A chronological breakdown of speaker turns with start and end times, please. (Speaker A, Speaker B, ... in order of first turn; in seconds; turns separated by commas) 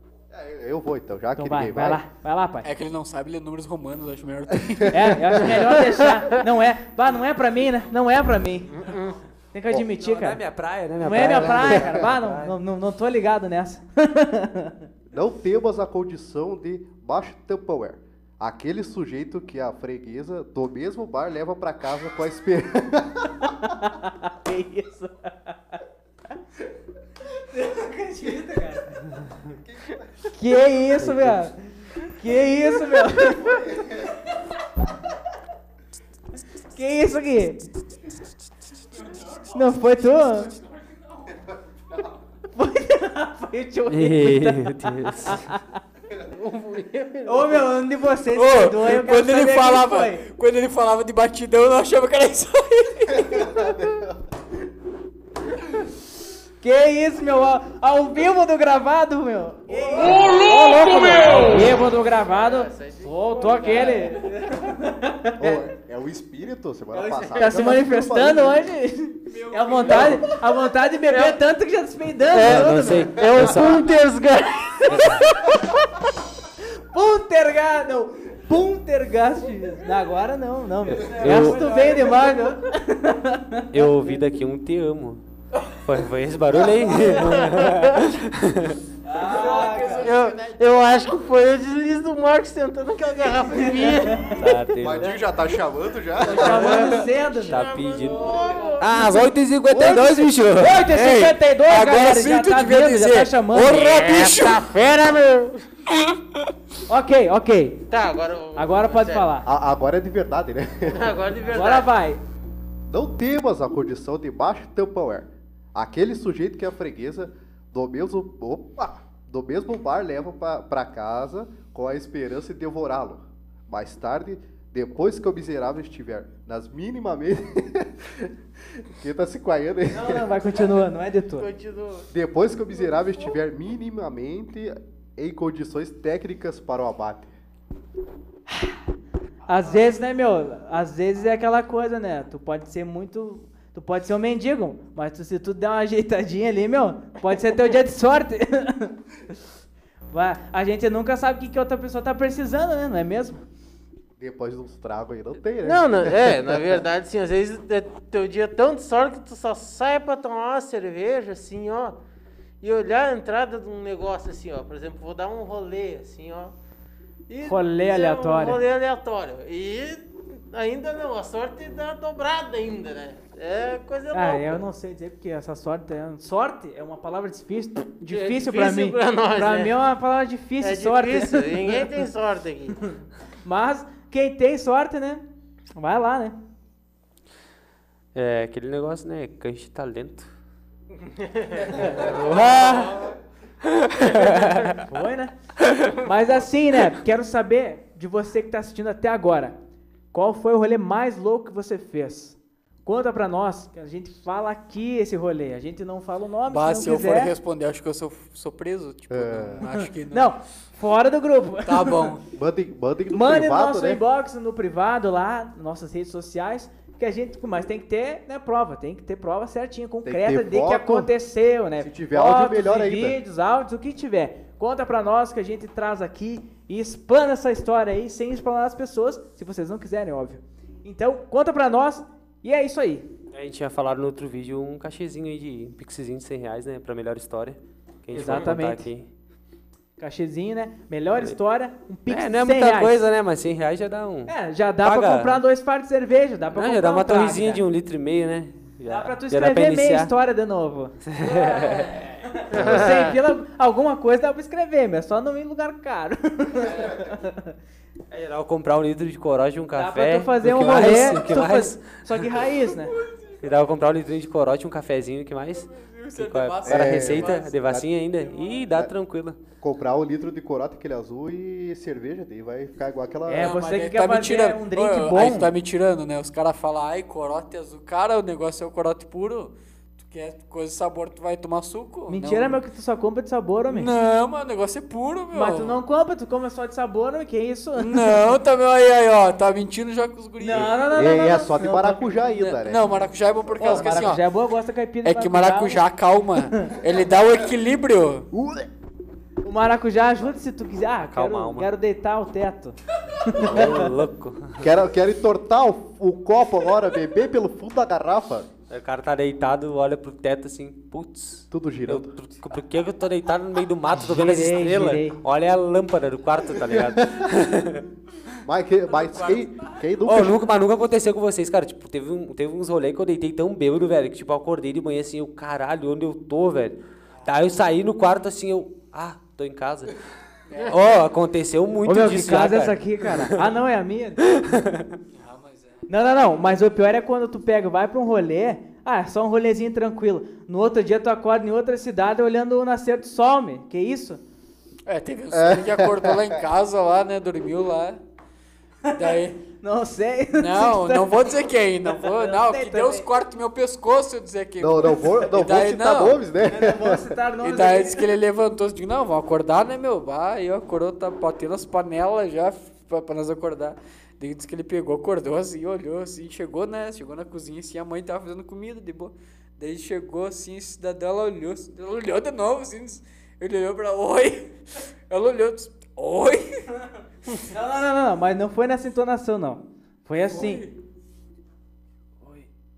Speaker A: 0.3-2.0, Speaker B: 1.4-2.7, Speaker C: 2.6-5.2, Speaker B: 4.9-8.8, Speaker D: 5.4-6.3, Speaker D: 8.7-9.2, Speaker B: 9.5-10.4, Speaker E: 9.8-12.5, Speaker B: 11.0-14.9, Speaker A: 11.6-12.0, Speaker A: 15.1-23.4, Speaker B: 23.4-25.8, Speaker B: 27.4-29.1, Speaker A: 29.7-30.1, Speaker B: 30.3-33.6, Speaker E: 31.0-31.4, Speaker A: 33.5-34.0, Speaker B: 36.7-37.7, Speaker C: 39.1-39.4, Speaker B: 39.5-40.5, Speaker B: 42.5-45.8, Speaker E: 43.9-45.5, Speaker D: 46.2-47.6, Speaker B: 47.2-50.2, Speaker C: 48.3-53.6, Speaker A: 53.3-54.2, Speaker B: 56.6-65.7, Speaker D: 60.0-64.2, Speaker C: 60.2-60.7, Speaker A: 65.4-68.7, Speaker B: 67.0-73.5, Speaker D: 67.1-67.6, Speaker C: 69.3-70.2, Speaker D: 71.1-71.3, Speaker D: 72.3-75.7, Speaker E: 72.4-73.9, Speaker E: 74.9-75.2, Speaker B: 76.9-83.7, Speaker C: 81.0-82.5, Speaker E: 81.1-81.6, Speaker E: 83.7-85.2, Speaker E: 85.8-88.8, Speaker D: 87.0-88.1, Speaker B: 89.1-90.1, Speaker C: 89.1-90.4, Speaker D: 89.9-94.6, Speaker B: 94.0-94.4, Speaker E: 94.4-95.1, Speaker A: 94.8-97.1, Speaker B: 96.2-97.7, Speaker D: 96.4-99.3, Speaker E: 97.4-101.3, Speaker C: 98.3-98.7, Speaker B: 99.7-103.9, Speaker C: 101.1-104.6, Speaker D: 103.6-105.7, Speaker B: 106.9-107.8, Speaker D: 107.9-109.3, Speaker B: 108.6-109.5, Speaker A: 109.5-111.2, Speaker D: 110.9-111.9, Speaker B: 111.5-112.2, Speaker A: 112.9-130.4, Speaker B: 129.9-131.5, Speaker D: 131.4-132.1, Speaker A: 132.1-137.3, Speaker B: 138.5-138.8, Speaker B: 139.5-149.3, Speaker B: 150.1-153.4, Speaker A: 154.2-156.8, Speaker D: 155.6-162.0, Speaker D: 162.6-166.5, Speaker D: 167.3-174.6, Speaker B: 167.4-168.6, Speaker B: 174.1-181.9, Speaker D: 178.1-179.8, Speaker D: 180.6-182.8, Speaker B: 182.8-185.2, Speaker B: 185.8-186.4, Speaker E: 188.1-190.3, Speaker D: 191.0-193.1, Speaker B: 191.8-192.0, Speaker E: 192.2-192.8, Speaker E: 193.8-194.7, Speaker D: 194.0-194.7, Speaker B: 194.8-195.3, Speaker B: 195.9-199.6, Speaker B: 200.1-207.3, Speaker C: 206.5-210.3, Speaker A: 209.1-209.7, Speaker B: 209.6-212.1, Speaker C: 211.6-212.2, Speaker A: 212.3-214.0, Speaker B: 213.1-233.1, Speaker A: 220.0-221.1, Speaker A: 221.8-223.2, Speaker E: 233.3-239.1, Speaker B: 238.1-238.9, Speaker B: 240.0-243.0, Speaker E: 242.1-245.4, Speaker B: 244.3-247.6, Speaker E: 246.5-250.1, Speaker B: 248.8-257.6, Speaker E: 251.1-251.9, Speaker D: 252.5-253.2, Speaker E: 258.1-261.9, Speaker B: 259.7-262.9, Speaker C: 262.6-263.5, Speaker E: 263.4-269.4, Speaker C: 265.7-267.5, Speaker A: 266.7-267.9, Speaker A: 269.6-273.6, Speaker B: 273.3-275.5, Speaker C: 273.4-282.6, Speaker B: 282.1-283.9, Speaker C: 283.7-285.8, Speaker B: 285.3-288.3, Speaker C: 287.8-290.8, Speaker B: 290.4-292.3, Speaker A: 290.9-294.2, Speaker C: 292.4-294.2, Speaker B: 293.6-295.8, Speaker C: 295.0-298.3, Speaker B: 296.5-296.8, Speaker A: 298.3-298.7, Speaker B: 299.4-303.9, Speaker E: 301.0-301.7, Speaker E: 303.4-304.7, Speaker A: 304.6-308.5, Speaker E: 308.7-317.9, Speaker A: 311.5-312.2, Speaker B: 313.9-315.2, Speaker A: 316.8-317.3, Speaker A: 318.4-320.4, Speaker C: 319.0-319.7, Speaker E: 320.1-330.0, Speaker C: 330.5-330.8, Speaker E: 330.7-333.4, Speaker B: 331.8-334.2, Speaker E: 334.2-335.0, Speaker C: 335.2-335.8, Speaker B: 335.9-344.2, Speaker C: 344.9-348.0, Speaker A: 345.3-346.4, Speaker B: 348.9-351.3, Speaker C: 348.9-349.4, Speaker C: 350.4-356.2, Speaker B: 352.0-353.1, Speaker A: 354.6-357.2, Speaker B: 356.4-358.1, Speaker C: 357.4-374.5, Speaker C: 375.1-376.7, Speaker B: 377.4-380.7, Speaker C: 380.3-380.8, Speaker B: 382.2-382.5